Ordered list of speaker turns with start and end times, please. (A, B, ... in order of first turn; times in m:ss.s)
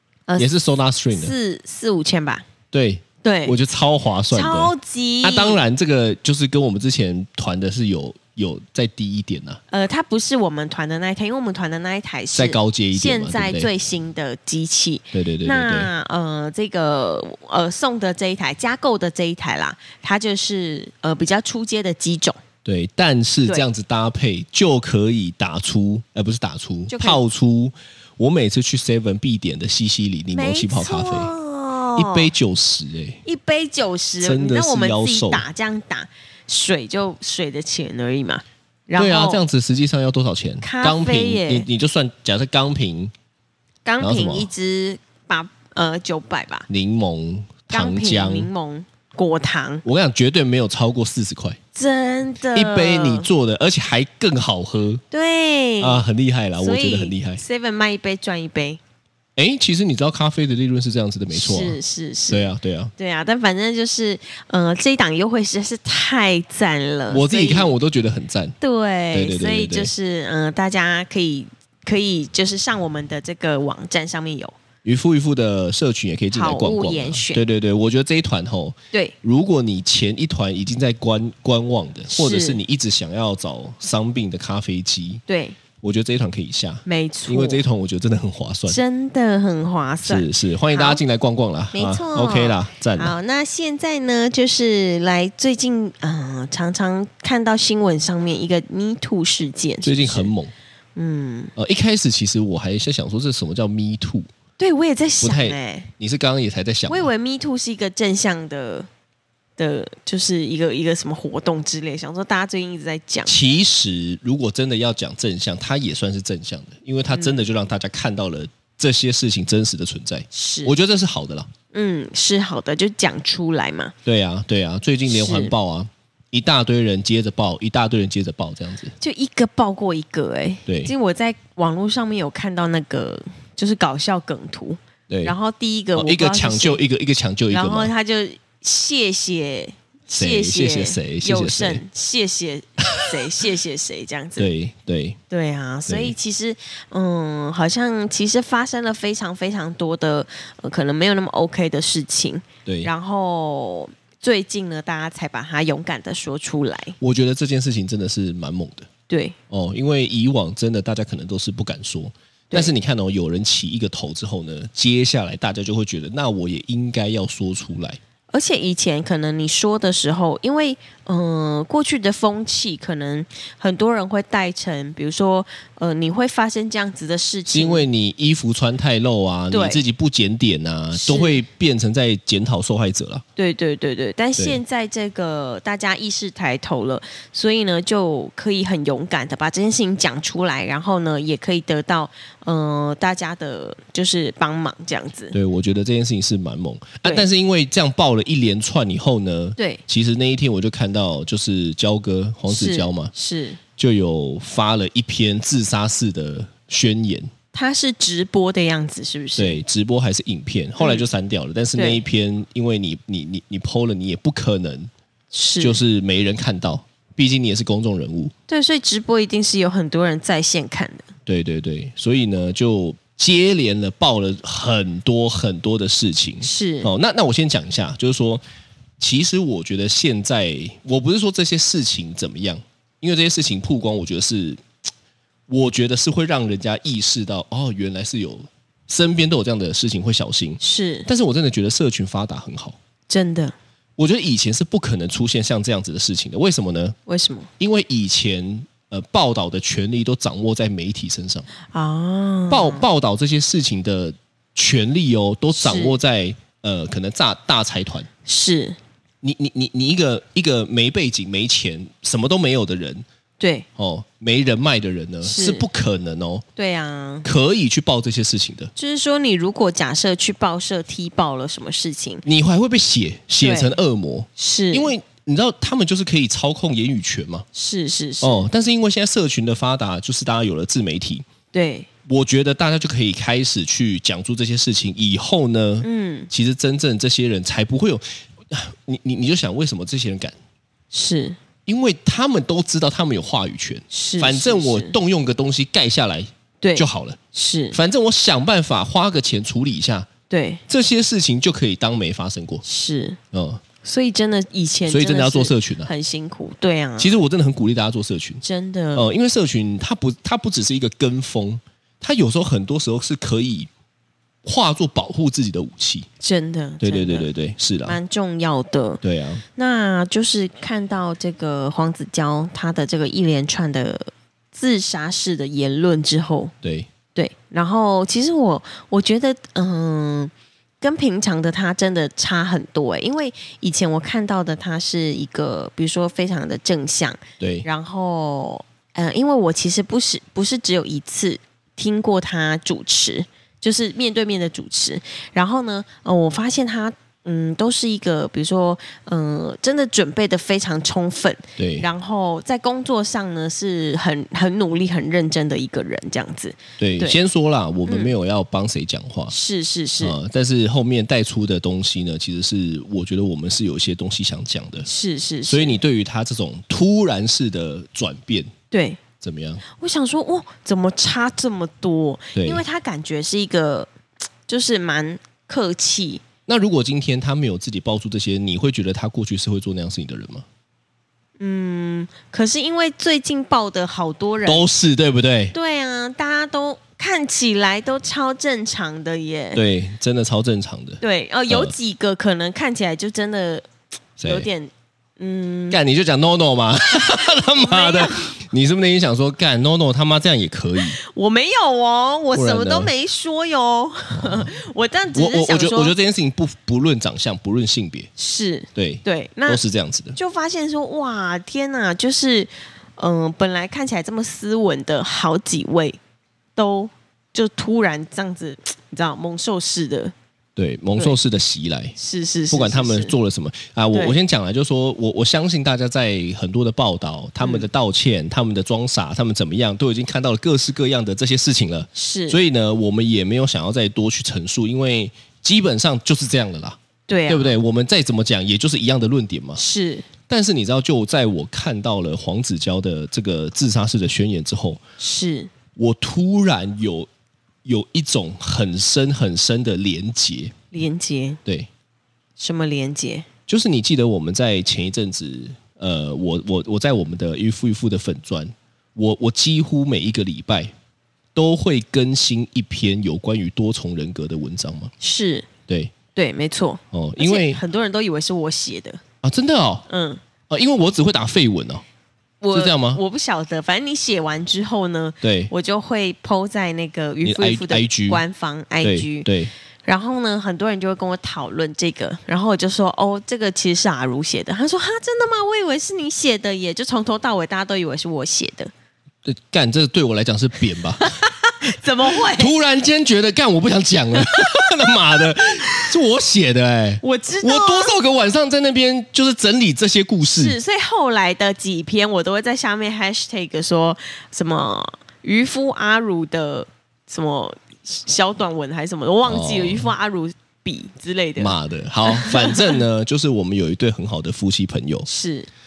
0:00.4-0:01.4 A
0:01.1-0:02.4 B
0:02.7-0:09.6 A
0:03.2-0:03.6 B
0:04.3-0:05.6 B
0:09.7-0:22.4 B
0:12.4-0:13.7 A
0:15.1-0:15.9 A
0:22.6-0:31.4 A
0:26.9-0:27.2 B
0:30.3-0:32.3 B
0:32.0-0:33.2 A
0:33.2-0:39.4 B
0:34.2-0:35.4 A
0:39.0-0:43.1 A
0:40.6-0:41.7 B
0:43.8-0:46.7 B
0:44.0-0:44.5 A
0:46.7-0:48.5 A
0:47.7-0:49.8 B
0:49.8-0:51.6 A
0:51.8-0:53.3 B
0:52.5-0:55.0 A
0:55.1-0:56.0 B
0:55.8-0:57.4 A
0:56.6-0:58.8 B
0:59.4-1:01.8 A
1:01.3-1:07.7 B
1:02.3-1:02.9 A
1:07.1-1:08.6 A
1:08.6-1:14.6 B
1:09.1-1:09.9 A
1:14.8-1:25.2 A
1:16.3-1:17.4 B
1:22.1-1:22.6 B
1:25.3-1:25.6 B
1:25.8-1:28.8 A
1:26.9-1:27.6 B
1:28.7-1:31.0 B
1:30.0-1:33.1 A
1:31.7-1:40.3 B
1:39.8-1:40.5 A
1:41.0-1:41.5 B
1:41.6-1:44.3 A
1:44.6-1:45.9 B
1:45.2-1:47.1 A
1:46.9-1:48.9 B
1:49.6-1:53.4 B
1:53.3-2:01.5 A
1:57.1-1:57.4 B
2:00.3-2:00.8 B
2:01.7-2:03.9 B
2:04.0-2:08.9 A
2:05.1-2:05.6 B
2:09.0-2:16.8 B
2:10.7-2:10.9 A
2:15.1-2:15.4 A
2:16.0-2:17.9 A
2:17.5-2:24.5 B
2:20.1-2:21.8 A
2:23.0-2:23.2 A
2:24.4-2:25.2 A
2:25.3-2:37.0 B
2:25.9-2:26.2 A
2:32.7-2:32.9 A
2:37.0-2:38.9 A
2:39.1-2:39.4 B
2:39.5-2:48.0 A
2:48.3-2:57.9 B
2:57.5-3:03.2 A
2:59.5-2:59.8 B
3:00.9-3:01.4 B
3:03.4-3:15.4 B
3:15.3-3:23.1 A
3:19.6-3:19.8 B
3:22.5-3:23.6 B
3:23.8-3:27.3 A
3:27.5-3:29.6 B
3:29.4-3:34.9 A
3:30.8-3:31.1 B
3:31.8-3:32.0 B
3:35.3-3:35.8 B
3:35.6-3:38.3 A
3:38.5-3:41.1 B
3:41.2-3:48.4 A
3:46.4-3:46.9 B
3:49.0-3:54.6 A
3:55.5-4:02.8 A
4:00.6-4:01.1 B
4:03.1-4:03.6 B
4:04.0-4:07.0 A
4:07.1-4:07.5 B
4:07.6-4:11.5 A
4:11.7-4:12.9 B
4:12.5-4:18.1 A
4:15.6-4:16.0 B
4:18.2-4:18.8 B
4:19.2-4:23.0 A
4:23.4-4:23.7 B
4:23.8-4:26.5 A
4:25.2-4:25.7 B
4:26.6-4:27.3 B
4:27.2-4:28.7 A
4:28.8-4:32.2 B
4:32.2-4:37.4 A
4:33.4-4:33.8 B
4:34.4-4:34.9 B
4:37.5-4:38.5 B
4:38.2-4:41.2 A
4:41.5-4:41.9 B
4:42.1-4:50.4 A
4:45.8-4:46.3 B
4:50.9-4:51.4 B
4:51.7-4:57.2 A
4:53.9-4:55.0 B
4:56.6-4:57.8 B
4:57.7-5:00.1 A
5:00.3-5:00.6 B
5:00.7-5:02.6 A
5:02.6-5:03.2 B
5:03.3-5:03.6 A
5:03.8-5:07.2 B
5:04.9-5:05.9 A
5:07.0-5:08.4 A
5:08.4-5:09.1 B
5:08.9-5:13.7 A
5:14.4-5:16.1 A
5:16.2-5:17.3 B
5:16.8-5:18.0 A
5:17.9-5:19.0 B
5:19.0-5:19.4 A
5:19.6-5:26.5 B
5:26.6-5:26.9 A
5:27.2-5:57.2 B
5:37.4-5:37.7 A
5:51.6-5:51.9 A
5:56.8-5:59.3 A
5:57.9-5:58.1 B
5:59.3-6:00.2 B
6:00.0-6:04.9 A
6:04.8-6:05.8 B
6:05.5-6:08.5 A
6:08.7-6:09.0 B
6:09.2-6:09.6 A
6:09.7-6:13.9 B
6:12.4-6:12.6 A
6:14.5-6:16.2 B
6:16.5-6:20.5 A
6:21.4-6:24.6 B
6:24.4-6:25.6 A
6:25.5-6:29.6 B
6:29.6-6:31.7 A
6:31.0-6:33.7 B
6:34.2-6:34.5 A
6:34.2-6:35.8 B
6:35.7-6:41.0 A
6:37.2-6:38.4 B
6:40.8-6:45.9 B
6:42.3-6:42.9 A
6:44.1-6:44.6 A
6:45.1-6:48.1 A
6:48.2-6:49.6 B
6:48.8-6:50.2 A
6:50.2-6:56.0 B
6:56.6-7:00.1 B
7:00.6-7:02.0 A
7:02.0-7:03.2 B
7:02.5-7:19.6 A
7:03.9-7:04.2 B
7:07.4-7:07.7 B
7:11.9-7:12.4 B
7:17.1-7:17.6 B
7:19.6-7:20.1 B
7:20.3-7:24.8 A
7:25.0-7:25.5 B
7:25.8-7:27.1 A
7:27.6-7:30.5 A
7:30.7-7:31.4 B
7:32.4-7:33.3 B
7:33.5-7:40.7 A
7:41.3-7:44.9 A
7:45.0-7:45.5 B
7:45.7-7:45.9 A
7:46.2-7:49.0 B
7:46.9-7:47.6 A
7:49.2-7:49.9 A
7:49.9-7:50.2 B
7:50.5-7:51.8 A
7:52.4-7:59.3 B
7:52.5-7:53.0 A
7:55.2-7:55.5 A
7:57.2-7:58.2 A
7:58.8-7:59.5 A
7:59.8-8:08.7 B
8:09.2-8:11.1 A
8:11.0-8:12.6 B
8:12.1-8:20.6 A
8:14.3-8:14.6 B
8:17.0-8:18.0 B
8:20.4-8:31.6 B
8:29.3-8:29.9 A
8:31.4-8:35.1 A
8:32.0-8:32.8 B
8:35.0-8:35.5 B